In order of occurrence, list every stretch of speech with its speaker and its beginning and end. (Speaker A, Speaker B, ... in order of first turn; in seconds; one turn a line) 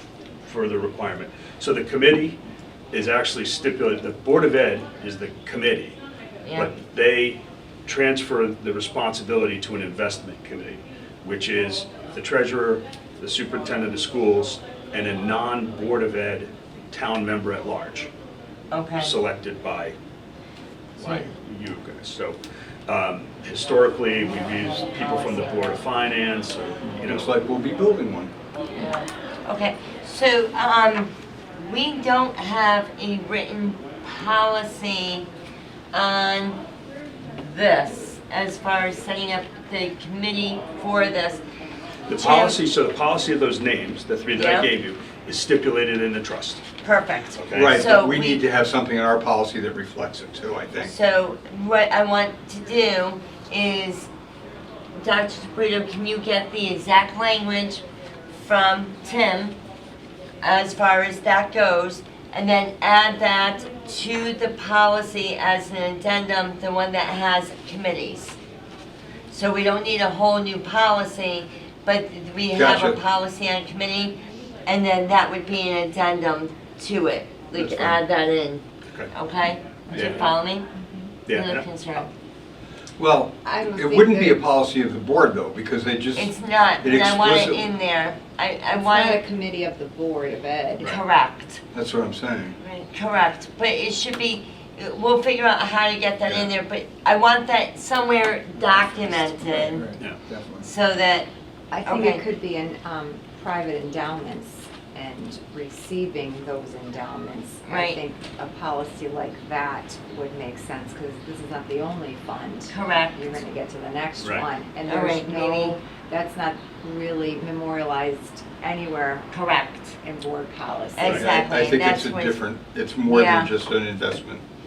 Speaker A: 0.4-2.4
Speaker A: 2.9-6.0
Speaker B: 6.4-6.7
Speaker A: 6.5-18.1
Speaker B: 18.7-19.1
Speaker A: 19.0-19.9
Speaker A: 21.0-27.3
Speaker B: 21.0-21.3
Speaker B: 24.2-25.7
Speaker C: 27.1-28.3
Speaker B: 28.7-35.3
Speaker B: 35.9-36.6
Speaker B: 37.3-41.4
Speaker A: 42.1-46.6
Speaker B: 42.1-42.6
Speaker B: 44.3-44.7
Speaker B: 46.8-48.4
Speaker A: 47.3-47.8
Speaker C: 47.5-50.9
Speaker B: 50.8-54.1
Speaker B: 55.0-59.6
Speaker B: 60.4-68.4
Speaker B: 69.3-80.7
Speaker C: 72.5-73.0
Speaker A: 77.5-78.0
Speaker D: 79.9-81.0
Speaker A: 79.9-80.3
Speaker A: 81.2-82.1
Speaker B: 81.3-82.0
Speaker C: 83.0-87.7
Speaker D: 83.4-84.4
Speaker B: 86.1-89.2
Speaker D: 88.7-91.0
Speaker B: 90.8-91.6
Speaker C: 91.7-92.6
Speaker B: 92.6-99.8
Speaker C: 96.2-96.5
Speaker C: 99.5-100.7
Speaker B: 100.6-101.3
Speaker D: 101.7-119.3
Speaker B: 101.8-102.2
Speaker B: 107.6-108.0
Speaker B: 112.7-113.4
Speaker A: 114.2-114.5
Speaker B: 114.8-115.8
Speaker B: 119.3-120.0
Speaker D: 120.0-121.7
Speaker B: 121.0-122.4
Speaker C: 121.1-124.4
Speaker B: 123.1-123.5